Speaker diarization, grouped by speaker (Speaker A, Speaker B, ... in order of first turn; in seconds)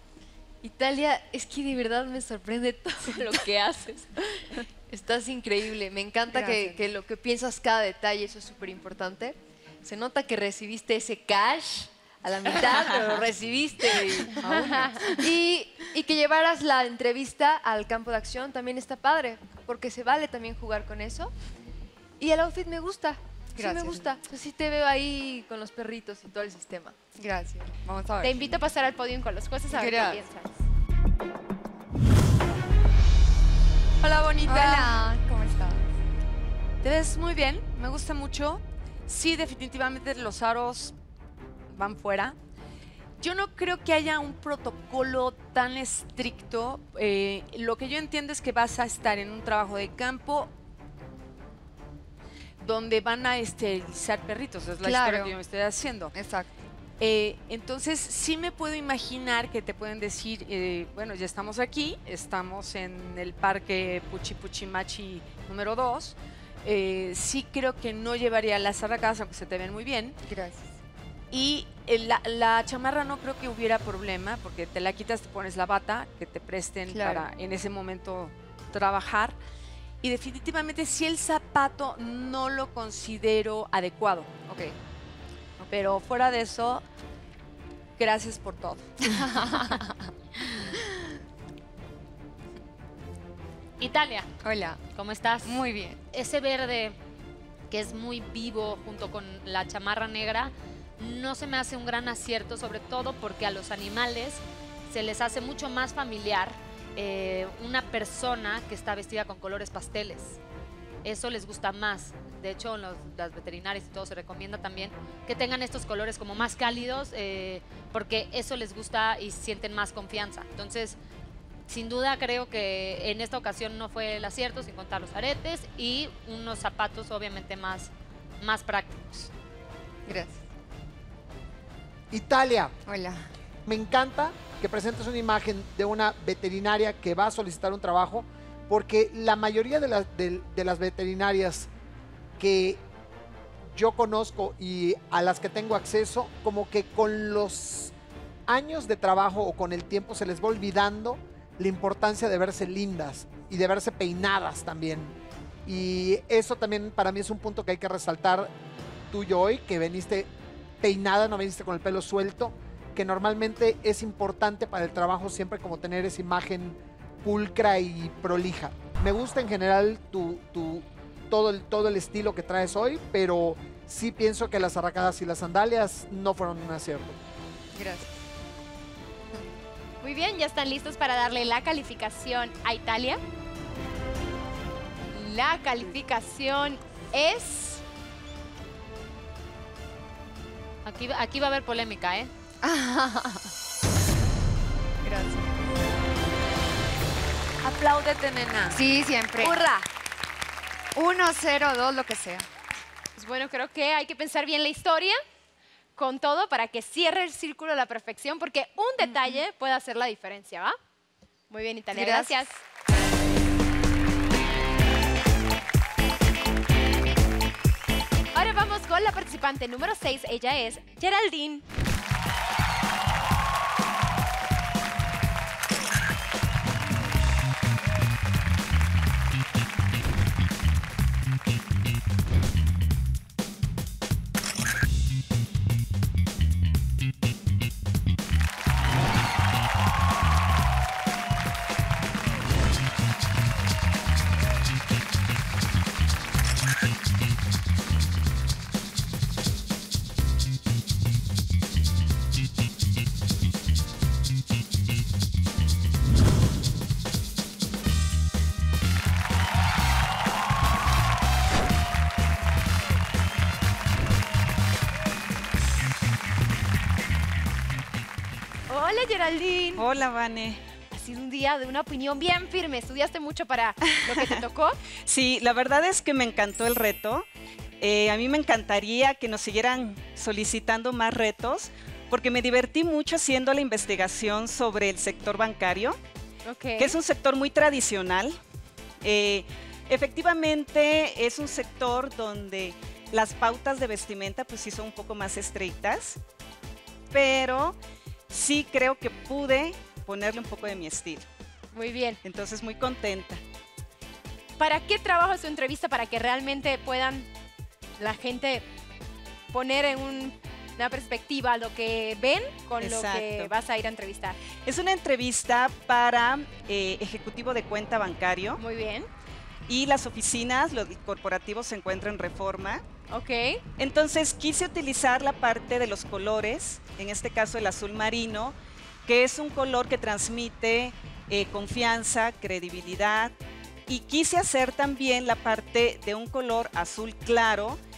Speaker A: 0.6-21.3, 22.2-26.9, 29.7-30.2, 76.9-77.2
Speaker B: 23.6-24.1, 27.2-28.4, 34.4-35.9, 54.8-55.4, 56.1-56.5, 70.2-70.6, 89.4-89.7, 94.4-94.8, 95.4-96.0, 130.1-130.4, 132.8-133.3, 177.7-178.1, 192.6-193.5, 198.7-199.7, 200.9-202.4, 211.9-212.4
Speaker C: 28.2-30.5, 180.0-183.2, 185.1-187.8, 203.2-205.2, 205.9-210.8, 211.5-212.6, 218.3-221.6, 268.7-269.8, 270.9-274.8, 286.4-286.9, 301.7-302.2, 304.6-307.3, 308.0-308.6, 309.5-314.4, 318.6-319.1, 323.1-323.6
Speaker D: 34.0-35.0, 36.8-40.9, 41.7-42.4, 43.2-50.5, 52.6-56.1, 57.0-70.2, 71.3-79.4, 80.0-84.3, 85.6-86.8, 88.0-89.0, 197.6-198.8
Speaker E: 93.8-94.3, 94.9-97.0, 97.7-110.4, 111.0-121.0, 121.7-129.3, 190.8-192.3
Speaker F: 132.1-132.7, 133.6-141.7, 142.4-142.8, 143.7-147.9, 148.5-158.5, 159.1-160.3, 160.8-177.2
Speaker G: 269.8-270.6, 275.1-277.2, 277.8-286.0, 286.8-288.4, 289.0-296.2, 297.1-297.8, 298.3-301.2, 302.2-303.4, 312.8-313.5, 314.6-318.6, 319.7-322.8, 323.8-328.5, 329.1-333.4, 333.9-337.8